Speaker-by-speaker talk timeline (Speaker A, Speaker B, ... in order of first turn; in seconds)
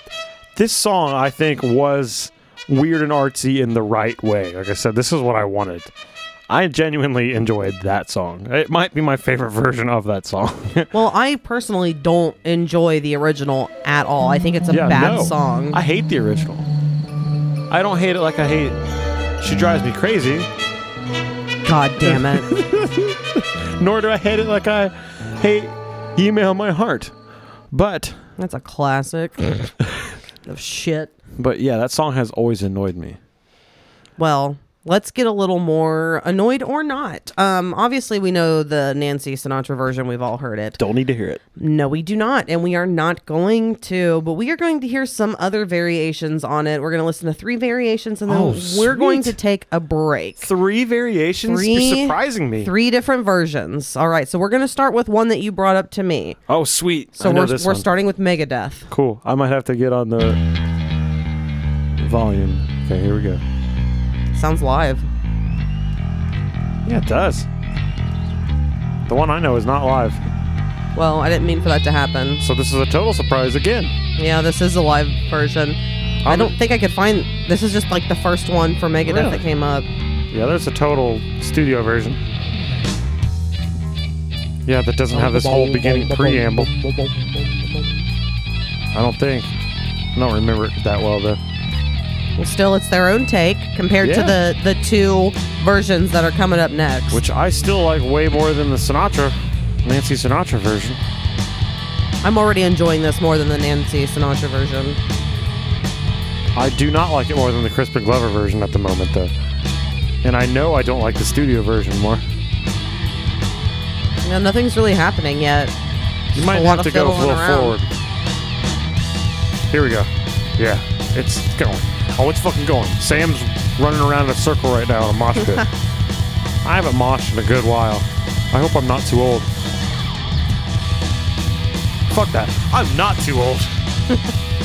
Speaker A: 0.6-5.9, 6.5-10.9, 14.7-16.7, 17.7-18.8, 19.4-20.5, 22.0-27.1, 27.7-28.2, 31.4-33.2, 40.8-41.4, 48.3-49.4, 50.4-52.7, 56.5-57.9, 58.9-60.4, 62.0-63.4, 66.8-67.5, 69.1-70.2, 72.4-73.9, 76.2-76.6, 79.1-79.5, 80.3-82.2, 84.7-86.7, 88.9-89.5, 90.1-91.4, 94.0-94.4, 97.1-101.0, 106.5-109.3, 110.2-112.2, 116.3-117.9, 119.7-125.7, 126.6-129.5, 132.1-133.8
Speaker B: 10.9-15.8, 21.6-22.5, 28.4-29.7, 30.5-31.1, 34.2-40.8, 41.6-50.5, 51.5-56.4, 57.2-58.9, 64.3-65.1, 71.0-72.4, 74.2-79.9, 92.4-97.2, 102.2-105.0, 114.2-115.7, 116.3-117.8